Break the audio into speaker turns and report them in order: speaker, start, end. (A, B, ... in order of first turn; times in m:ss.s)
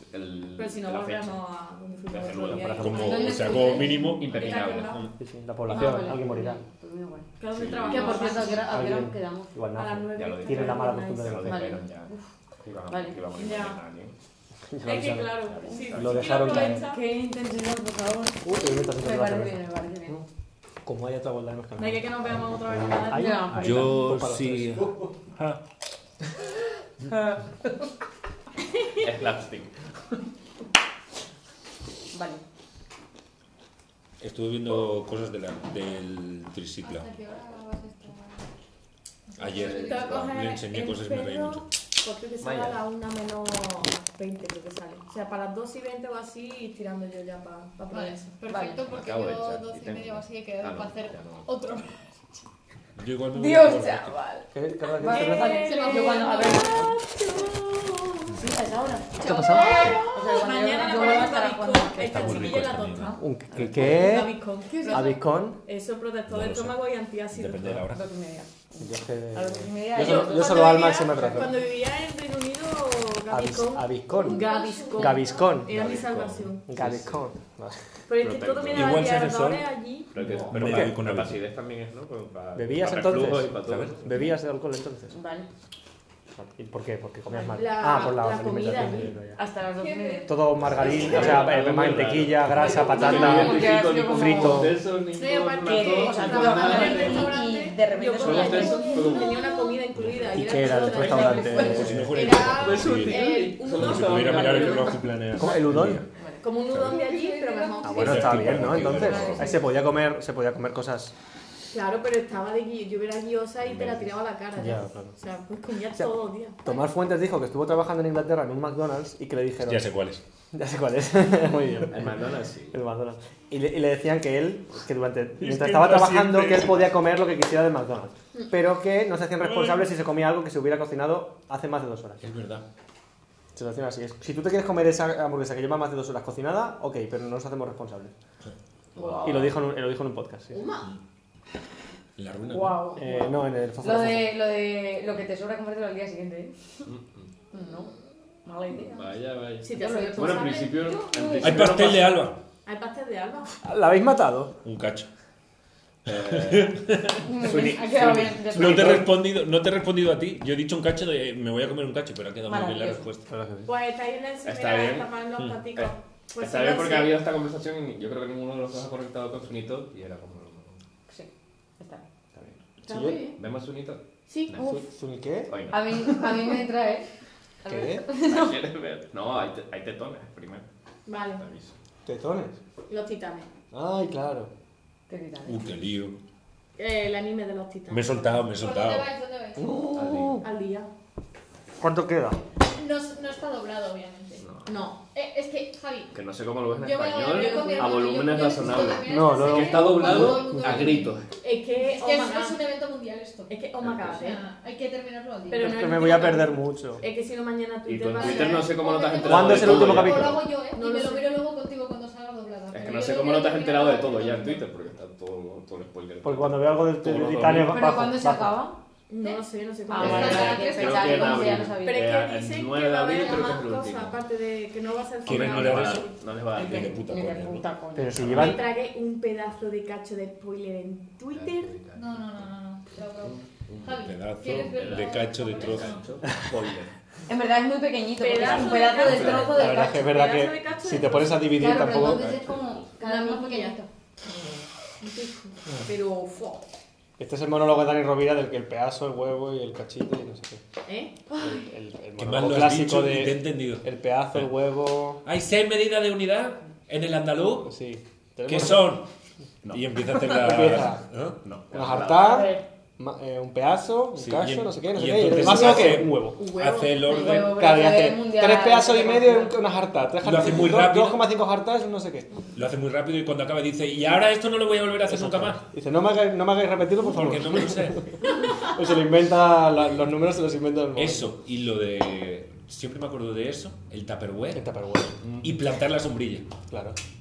0:00.1-0:01.4 A
0:00.6-0:05.1 B
0:02.1-0:03.2 A
0:02.5-0:02.8 C
0:02.8-0:05.1 D
0:02.8-0:04.1 E
0:04.0-0:05.0 A
0:05.2-0:06.6 C
0:05.7-0:07.3 E
0:07.4-0:08.8 B
0:07.5-0:08.6 A
0:07.8-0:09.6 E
0:08.7-0:11.6 C
0:09.8-0:11.4 B
0:10.1-0:12.1 A
0:11.4-0:12.3 E
0:12.6-0:14.1 A
0:12.9-0:13.2 E
0:13.3-0:13.8 B
0:14.7-0:16.8 C
0:14.8-0:17.0 B
0:15.4-0:16.4 A
0:15.7-0:20.2 E
0:18.4-0:20.2 C
0:20.8-0:25.0 C
0:21.8-0:23.5 B
0:23.1-0:23.9 E
0:23.5-0:25.6 D
0:27.0-0:27.4 E
0:28.9-0:29.7 A
0:32.1-0:32.4 E
0:34.2-0:37.1 D
0:36.8-0:38.4 F
0:39.3-0:40.5 F
0:39.4-0:41.6 D
0:39.6-0:48.4 B
0:42.4-0:42.8 A
0:47.9-0:52.4 F
0:48.5-0:48.8 E
0:48.8-0:51.5 A
0:53.0-0:54.1 D
0:53.3-0:56.9 E
0:54.5-0:55.6 C
0:55.1-1:07.8 B
0:55.6-0:56.6 F
0:58.3-1:02.7 E
0:59.2-1:00.0 C
1:02.0-1:04.0 D
1:03.2-1:04.4 C
1:04.7-1:05.1 E
1:04.9-1:05.6 C
1:06.3-1:06.7 D
1:07.3-1:08.0 D
1:07.9-1:10.8 E
1:08.8-1:11.6 C
1:10.0-1:16.6 B
1:13.3-1:15.7 C
1:14.2-1:15.4 F
1:15.7-1:17.2 A
1:16.7-1:17.8 C
1:18.1-1:20.2 B
1:18.2-1:19.1 A
1:18.7-1:19.7 D
1:20.1-1:24.1 A
1:20.2-1:21.4 D
1:20.6-1:20.9 C
1:22.5-1:25.1 C
1:23.5-1:24.0 D
1:25.1-1:25.5 E
1:26.4-1:29.4 C
1:27.4-1:29.1 B
1:29.3-1:31.4 E
1:29.8-1:30.3 B
1:30.2-1:34.8 C
1:30.7-1:37.4 A
1:30.8-1:31.3 D
1:32.4-1:32.7 D
1:32.6-1:34.7 E
1:32.8-1:33.4 B
1:35.1-1:35.6 F
1:35.2-1:45.1 B
1:35.7-1:39.3 E
1:36.9-1:37.7 F
1:38.2-1:39.5 A
1:38.7-1:39.4 F
1:39.9-1:40.4 D
1:40.3-1:42.2 C
1:40.7-1:42.0 E
1:41.5-1:46.0 D
1:42.3-1:45.0 A
1:45.3-1:46.0 C
1:46.2-1:49.7 E
1:46.4-1:48.5 B
1:46.7-1:47.1 D
1:47.8-1:51.1 C
1:47.9-1:49.6 D
1:51.7-1:56.6 B
1:53.7-1:54.0 A
1:54.6-1:55.1 C
1:56.6-1:59.9 C
1:59.6-2:00.2 D
2:00.5-2:12.2 C
2:01.9-2:02.8 A
2:05.4-2:06.9 D
2:09.4-2:09.9 D
2:12.2-2:12.6 D
2:13.5-2:18.1 C
2:18.9-2:19.5 A
2:19.0-2:19.4 E
2:19.2-2:20.6 C
2:20.5-2:20.9 B
2:22.2-2:22.8 D
2:22.4-2:26.5 E
2:22.9-2:24.3 C
2:26.8-2:27.3 A
2:27.5-2:27.9 E
2:28.4-2:29.0 E
2:28.7-2:32.2 A
2:29.6-2:30.8 B
2:29.7-2:31.9 E
2:31.4-2:32.4 D
2:32.6-2:33.6 B
2:33.6-2:34.6 C
2:34.6-2:35.1 D
2:36.0-2:36.8 A
2:36.0-2:43.3 D
2:37.2-2:39.2 E
2:42.4-2:43.1 E
2:43.3-2:43.7 C
2:43.6-2:47.2 B
2:44.4-2:45.1 A
2:45.4-2:45.7 D
2:45.8-2:50.8 A
2:51.1-2:52.1 E
2:52.3-2:52.6 A
2:52.9-2:53.2 C
2:52.9-2:53.3 B
2:52.9-2:53.2 E
2:53.4-2:54.7 A
2:54.3-2:54.7 B
2:54.6-2:55.5 C
2:55.5-2:56.2 A
2:55.7-2:57.1 E
2:57.6-2:58.6 E
2:57.6-2:58.0 C
2:58.2-3:00.7 A
3:01.0-3:01.4 B
3:01.3-3:01.7 A
3:02.0-3:02.6 C
3:02.9-3:03.5 B
3:03.7-3:04.5 C
3:05.1-3:05.7 E
3:05.4-3:06.2 D
3:06.8-3:08.4 B
3:07.9-3:09.1 D
3:08.6-3:09.8 F
3:09.6-3:10.4 C
3:09.9-3:10.4 A
3:10.4-3:10.9 B
3:11.8-3:12.4 C
3:12.6-3:14.4 F
3:14.4-3:14.8 A
3:14.6-3:15.0 B
3:15.1-3:16.1 F
3:16.1-3:21.3 A
3:16.8-3:21.1 F
3:17.4-3:17.8 B
3:17.5-3:18.0 E
3:19.0-3:20.8 C
3:21.4-3:22.6 B
3:21.8-3:25.8 F
3:23.5-3:24.4 B
3:23.8-3:24.1 A
3:25.5-3:30.1 B
3:25.5-3:27.0 C
3:27.8-3:30.5 A
3:28.2-3:34.6 F
3:29.2-3:30.4 C
3:30.7-3:31.4 B
3:32.7-3:37.9 A
3:36.2-3:38.6 C
3:37.5-3:38.8 E
3:39.1-3:40.8 B
3:39.2-3:41.6 F
3:39.9-3:42.1 E
3:40.0-3:44.2 A
3:41.8-3:46.1 B
3:43.2-3:43.6 F
3:45.2-3:47.0 A
3:45.2-3:47.7 D
3:46.5-3:48.5 E
3:47.9-3:48.6 C
3:48.2-3:48.5 A
3:48.3-3:51.7 B
3:51.3-3:56.9 A
3:51.9-3:56.2 F
3:54.0-3:56.0 D
3:57.3-4:00.2 E
3:58.2-4:01.8 B
3:58.3-3:59.7 A
3:59.5-4:02.2 C
4:01.4-4:03.9 E
4:01.8-4:02.9 A
4:03.0-4:03.8 B
4:05.0-4:05.5 B
4:05.8-4:06.6 E
4:07.2-4:10.6 C
4:10.8-4:11.7 B
4:11.4-4:15.2 C
4:12.2-4:14.5 D
4:15.2-4:17.7 D
4:17.6-4:19.0 C
4:18.5-4:19.1 D
4:19.6-4:20.4 A
4:19.7-4:21.4 D
4:20.3-4:21.0 C
4:21.4-4:22.5 A
4:21.7-4:26.4 C
4:22.1-4:22.6 B
4:24.2-4:27.6 D
4:26.2-4:27.4 B
4:27.0-4:29.6 E
4:27.4-4:32.3 C
4:30.2-4:31.3 D
4:32.5-4:35.6 D
4:35.1-4:41.4 C
4:37.0-4:38.0 D
4:38.4-4:38.7 B
4:41.0-4:44.6 D
4:44.5-4:45.2 C
4:45.2-4:45.5 A
4:45.4-4:46.5 D
4:46.7-4:47.0 C